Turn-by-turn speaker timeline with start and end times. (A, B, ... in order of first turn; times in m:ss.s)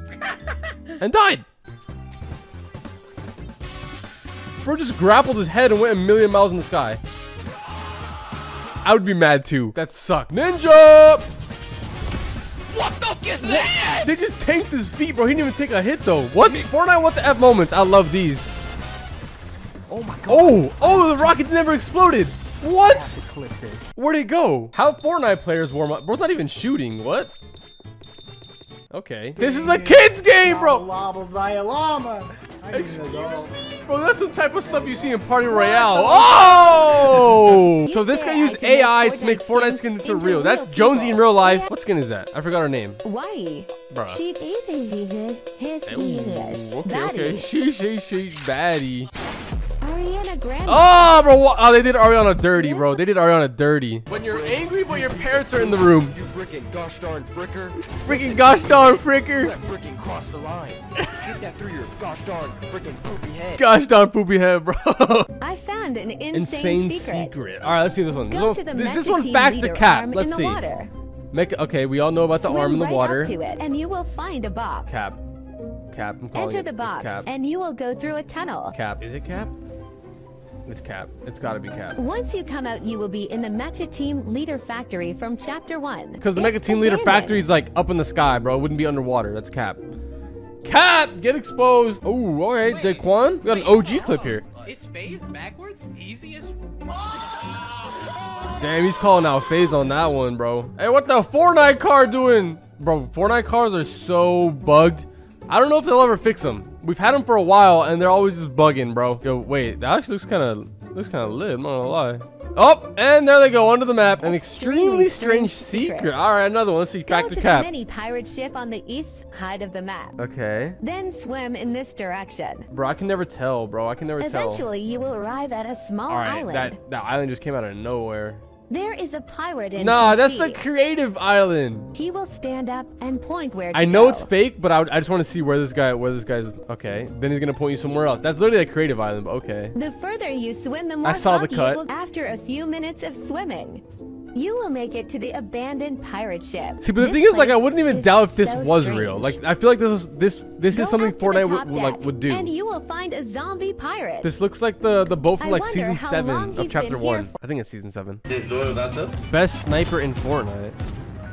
0:01.0-0:01.4 A
0:04.6-0:07.0 A
0:08.8-0:11.3 A
0:12.7-0:14.0 B
0:13.4-0:18.5 A
0:19.9-0:20.6 B
0:20.3-0:27.3 A
0:22.9-0:23.2 B
0:28.9-0:30.9 A
0:29.4-0:33.5 B
0:32.7-0:43.0 A
0:35.5-0:37.1 C
0:37.8-0:41.7 C
0:43.0-0:47.5 C
0:43.9-0:44.2 A
0:45.8-0:49.1 A
0:49.8-0:51.0 C
0:50.6-0:56.2 A
0:52.5-0:53.0 C
0:54.1-1:03.6 B
0:58.0-0:59.5 A
1:03.6-1:05.3 A
1:05.4-1:07.3 C
1:06.3-1:10.6 A
1:08.3-1:10.9 C
1:11.3-1:13.3 A
1:12.4-1:14.9 C
1:14.9-1:15.2 A
1:15.9-1:17.3 A
1:16.3-1:18.7 C
1:18.7-1:19.5 A
1:20.6-1:22.0 A
1:22.0-1:27.4 C
1:26.2-1:29.8 A
1:30.6-1:34.4 A
1:32.6-1:36.5 D
1:38.5-1:57.7 A
1:54.2-1:56.2 C
1:57.1-2:00.1 C
2:00.2-2:00.8 A
2:00.8-2:02.7 C
2:02.7-2:04.7 A
2:04.2-2:06.8 C
2:06.1-2:08.4 A
2:08.7-2:10.6 C
2:09.8-2:11.9 A
2:11.9-2:14.3 C
2:13.7-2:19.7 A
2:19.7-2:23.8 C
2:21.0-2:21.8 A
2:24.3-2:29.4 C
2:26.8-2:32.5 A
2:30.7-2:34.3 C
2:34.2-2:38.2 A
2:35.4-2:37.3 C
2:39.3-2:40.8 A